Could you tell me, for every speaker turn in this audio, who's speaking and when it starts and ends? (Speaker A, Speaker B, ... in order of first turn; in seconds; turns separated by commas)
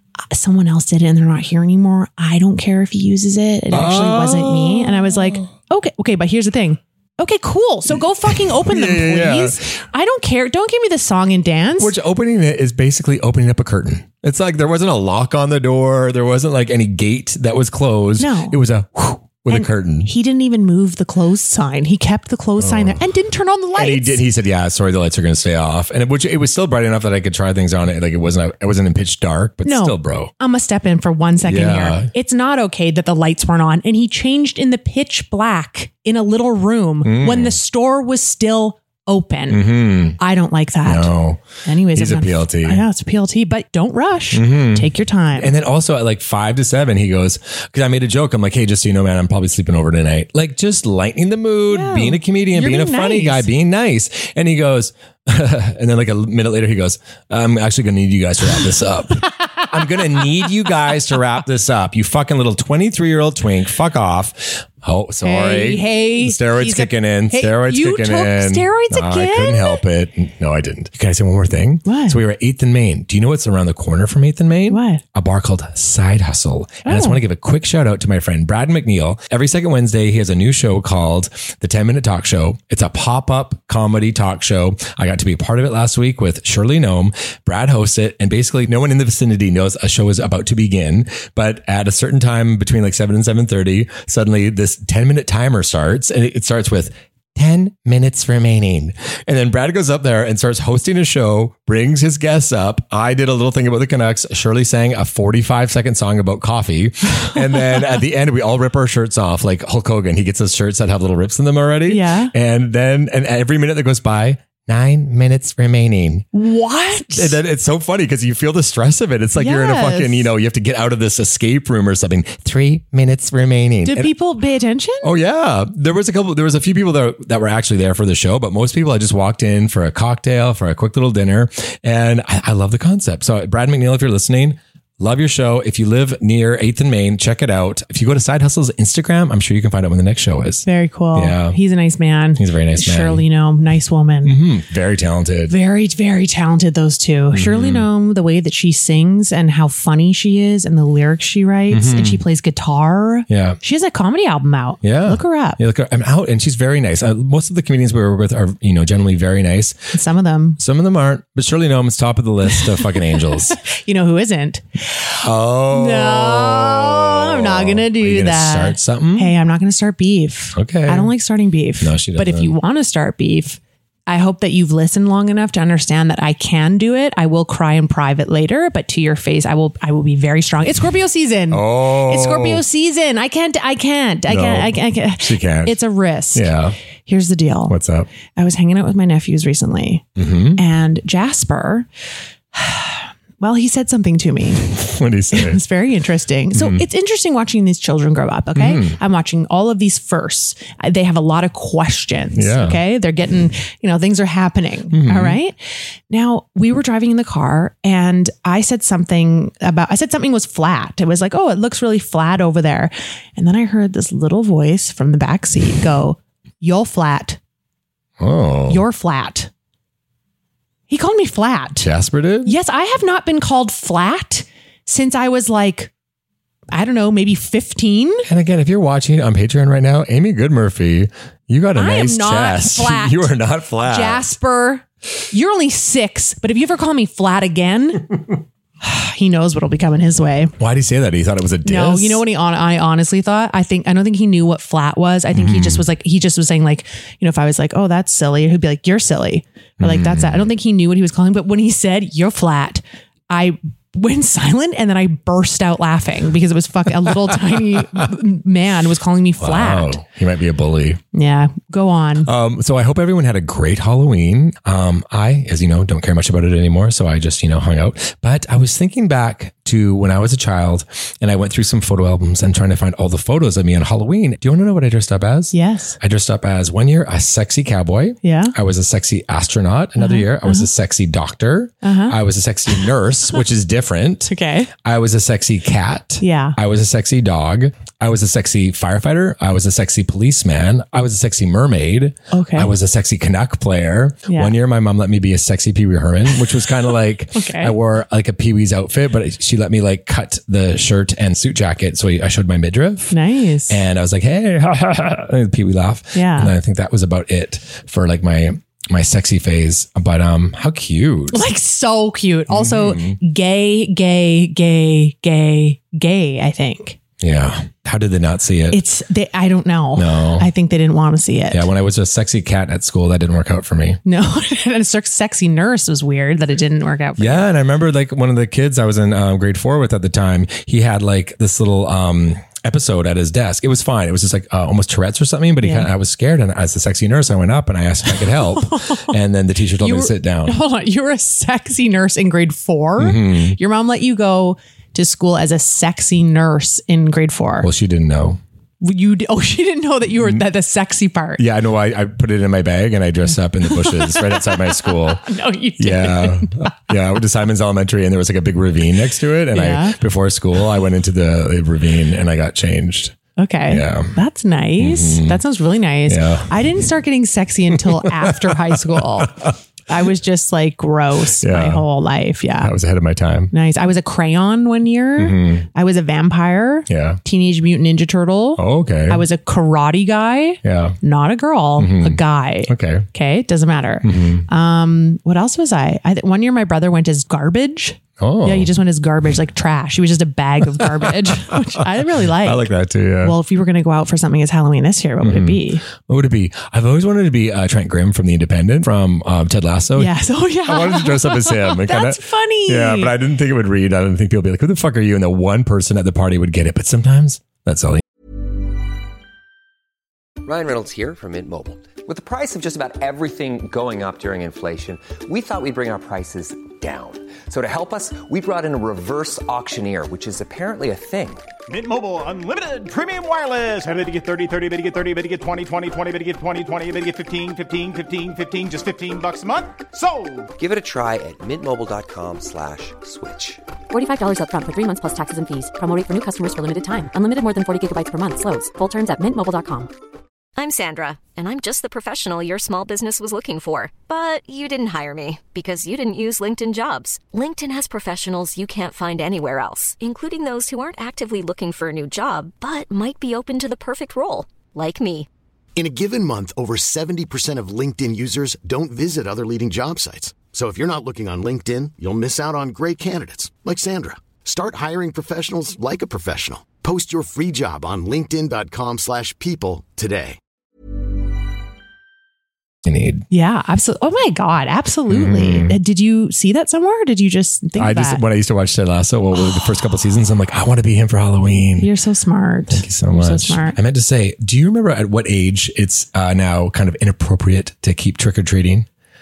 Speaker A: 0.3-11.9, Speaker B: 3.7-5.5, Speaker B: 8.2-9.8, Speaker B: 11.8-20.1, Speaker A: 18.2-18.6, Speaker A: 19.5-24.2, Speaker B: 22.6-23.0, Speaker B: 23.8-30.3, Speaker A: 29.6-39.6, Speaker B: 31.4-32.1, Speaker B: 37.0-37.6, Speaker B: 39.5-40.2, Speaker A: 40.2-41.1, Speaker B: 40.9-42.8, Speaker A: 41.6-45.5, Speaker B: 44.3-116.2, Speaker A: 51.7-53.5, Speaker A: 59.9-60.2, Speaker A: 65.2-69.8, Speaker A: 71.8-72.2, Speaker A: 74.7-75.0, Speaker A: 76.8-77.2, Speaker A: 111.9-112.3, Speaker A: 116.3-117.4, Speaker B: 117.1-124.1, Speaker A: 119.4-120.3, Speaker A: 123.8-125.1, Speaker B: 125.0-141.6, Speaker A: 140.7-144.4, Speaker B: 142.4-143.2, Speaker B: 144.2-145.5, Speaker A: 145.5-155.6, Speaker B: 147.3-147.9, Speaker B: 151.7-152.2, Speaker B: 153.3-153.6, Speaker B: 154.8-159.9, Speaker A: 159.9-160.6, Speaker B: 160.6-163.6, Speaker A: 162.5-186.5, Speaker B: 165.2-169.3, Speaker B: 170.6-171.1, Speaker B: 171.8-172.5, Speaker B: 181.5-182.6, Speaker B: 184.3-185.8, Speaker B: 186.3-186.8, Speaker A: 187.0-187.8, Speaker B: 187.7-188.1, Speaker A: 188.3-190.0, Speaker B: 190.2-190.6, Speaker A: 190.6-191.9, Speaker A: 192.5-194.7, Speaker B: 194.7-195.6, Speaker A: 195.3-205.6, Speaker B: 196.5-196.8, Speaker B: 198.5-199.0, Speaker B: 202.4-202.8, Speaker B: 204.9-205.4, Speaker A: 206.1-217.4, Speaker B: 218.2-218.8, Speaker A: 218.7-219.5, Speaker A: 220.9-221.9, Speaker B: 221.8-222.6, Speaker A: 222.4-225.9, Speaker A: 226.7-228.2, Speaker B: 228.2-234.3, Speaker A: 231.8-238.2, Speaker A: 238.8-240.5, Speaker B: 240.6-242.2, Speaker A: 241.7-260.0, Speaker B: 245.3-245.8, Speaker B: 249.8-250.5, Speaker B: 259.4-261.0, Speaker A: 261.1-262.3, Speaker B: 262.2-284.3, Speaker A: 275.5-276.0, Speaker A: 278.2-278.5, Speaker A: 280.0-280.7, Speaker A: 281.8-282.2, Speaker A: 284.2-284.7, Speaker B: 284.8-303.2, Speaker A: 286.2-286.6, Speaker A: 292.3-292.7, Speaker A: 294.3-294.5, Speaker A: 297.3-297.8, Speaker A: 303.1-303.8, Speaker B: 303.7-311.4, Speaker A: 306.1-306.5, Speaker A: 311.3-317.0, Speaker B: 312.5-313.2, Speaker B: 317.2-318.8, Speaker A: 318.7-321.7, Speaker B: 320.0-320.5, Speaker B: 321.5-324.0, Speaker A: 324.0-327.5, Speaker B: 327.2-340.6, Speaker A: 335.6-335.9, Speaker A: 338.1-339.1, Speaker A: 339.8-347.7, Speaker B: 343.0-343.6, Speaker B: 347.6-348.4, Speaker A: 348.8-351.4, Speaker B: 351.4-355.3, Speaker A: 353.6-356.7, Speaker B: 355.8-364.1, Speaker A: 359.5-360.0, Speaker A: 363.4-369.3, Speaker B: 364.8-365.4, Speaker B: 366.1-366.5, Speaker B: 367.8-369.5, Speaker A: 369.9-372.7, Speaker B: 371.4-371.8, Speaker B: 372.6-373.5, Speaker A: 373.5-392.7, Speaker B: 375.2-375.7, Speaker B: 376.9-377.2, Speaker B: 378.6-379.2, Speaker B: 380.6-381.0, Speaker B: 381.8-383.1, Speaker B: 384.0-384.5, Speaker B: 388.2-388.7, Speaker B: 390.7-391.8, Speaker B: 392.4-393.4, Speaker A: 393.2-395.8, Speaker B: 395.2-400.1, Speaker A: 400.0-403.1, Speaker B: 400.7-408.0, Speaker C: 410.4-421.5, Speaker D: 421.7-430.5, Speaker C: 430.6-433.6, Speaker E: 433.9-439.9, Speaker F: 440.6-455.3, Speaker G: 455.8-470.4, Speaker B: 472.8-473.2, Speaker A: 473.3-478.2, Speaker B: 475.1-475.8, Speaker B: 477.8-481.9, Speaker A: 481.8-483.8, Speaker B: 482.7-488.9